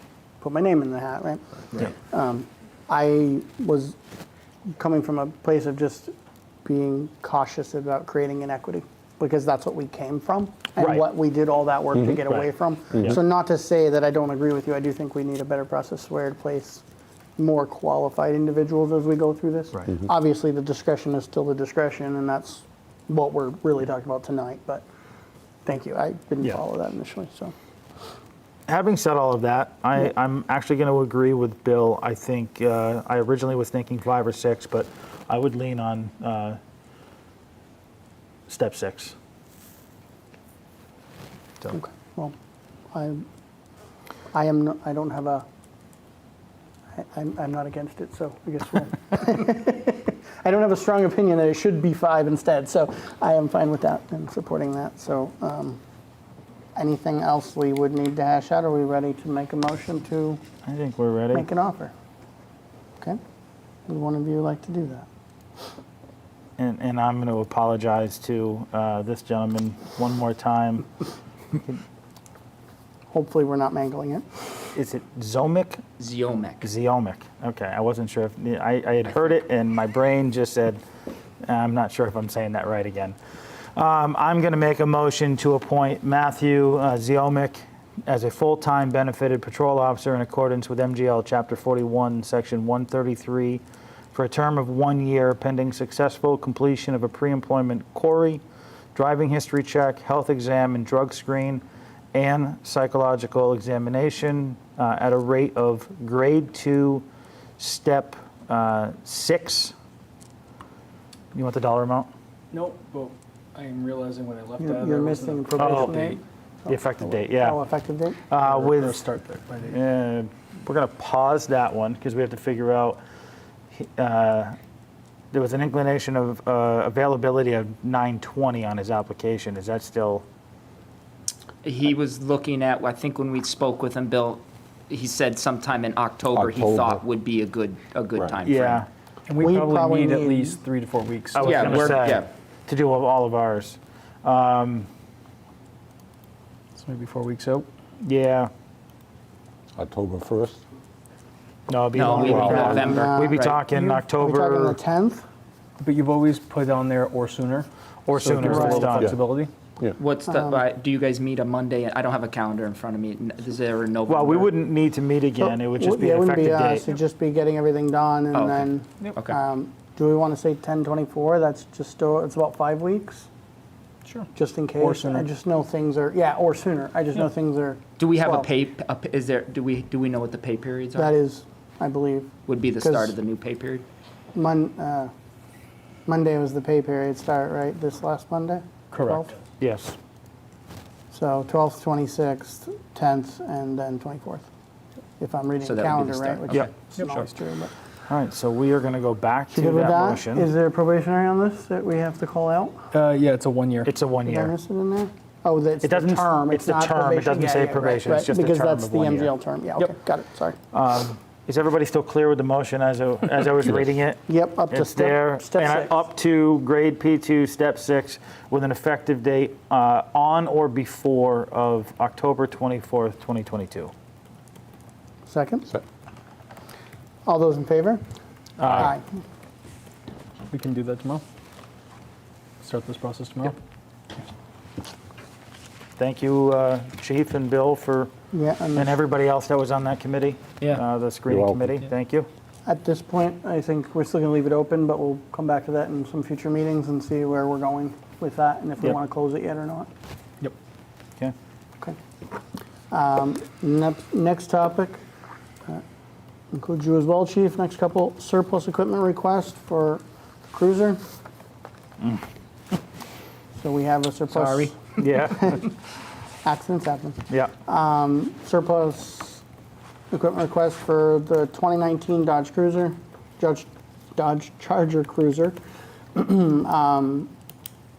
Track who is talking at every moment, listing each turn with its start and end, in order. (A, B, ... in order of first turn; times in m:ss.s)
0:00.4-0:04.0 A
0:04.8-0:06.1 A
0:06.6-0:16.8 A
0:10.8-0:11.0 B
0:17.4-0:24.8 A
0:25.6-0:27.5 A
0:28.7-0:36.6 B
0:38.5-0:39.1 B
0:41.7-0:42.3 A
0:42.9-0:43.2 A
0:44.3-0:45.4 A
0:46.9-0:55.8 A
0:56.8-1:00.4 A
1:00.6-1:01.5 B
1:01.3-1:01.9 A
1:03.9-1:05.1 A
1:06.6-1:10.9 B
1:11.5-1:11.8 B
1:13.1-1:14.7 A
1:14.7-1:15.8 B
1:16.0-1:16.7 C
1:16.6-1:20.8 B
1:21.4-1:23.2 B
1:23.7-1:33.6 B
1:34.1-1:38.4 B
1:38.9-1:47.0 B
1:47.6-1:49.7 B
1:51.3-1:52.1 B
1:52.5-1:56.2 D
1:54.6-1:58.2 A
1:55.6-1:57.6 B
1:58.3-1:59.0 B
1:58.4-1:59.8 D
1:59.7-2:03.0 B
2:03.8-2:04.6 B
2:05.3-2:10.2 B
2:11.6-2:18.8 C
2:16.3-2:17.0 E
2:18.4-2:18.9 B
2:19.3-2:21.9 D
2:19.4-2:20.6 A
2:21.3-2:24.9 B
2:21.4-2:22.3 C
2:26.8-2:27.7 D
2:28.0-2:28.5 B
2:29.8-2:30.6 E
2:31.7-2:34.8 B
2:31.9-2:33.6 C
2:32.0-2:35.2 A
2:35.8-2:39.5 D
2:38.1-2:39.1 B
2:38.4-2:38.9 A
2:40.0-2:44.5 C
2:40.3-2:40.6 A
2:44.1-2:46.9 B
2:45.4-2:53.3 A
2:48.3-2:49.4 C
2:54.3-2:58.5 A
2:54.8-2:55.2 D
2:58.0-3:01.1 C
3:00.9-3:03.2 A
3:02.4-3:03.8 C
3:04.3-3:05.1 A
3:06.1-3:09.3 A
3:08.9-3:09.3 D
3:09.6-3:10.0 B
3:11.1-3:14.4 A
3:15.2-3:17.7 A
3:15.6-3:17.2 C
3:18.1-3:20.5 B
3:19.5-3:22.9 A
3:22.9-3:23.9 D
3:23.8-3:24.5 B
3:24.2-3:30.6 A
3:25.8-3:29.3 B
3:30.7-3:43.9 B
3:34.3-3:36.0 A
3:45.2-3:45.7 A
3:47.2-3:48.0 A
3:48.6-3:48.9 B
3:48.7-3:49.0 A
3:50.5-3:51.2 D
3:52.6-3:53.6 D
3:56.0-3:58.1 B
3:58.3-3:59.0 A
3:58.8-4:02.3 B
4:01.3-4:01.7 E
4:02.6-4:09.9 A
4:12.9-4:15.0 A
4:16.5-4:21.0 A
4:23.6-4:25.7 A
4:25.0-4:25.6 B
4:26.4-4:29.4 A
4:30.1-4:35.6 A
4:36.1-4:37.3 A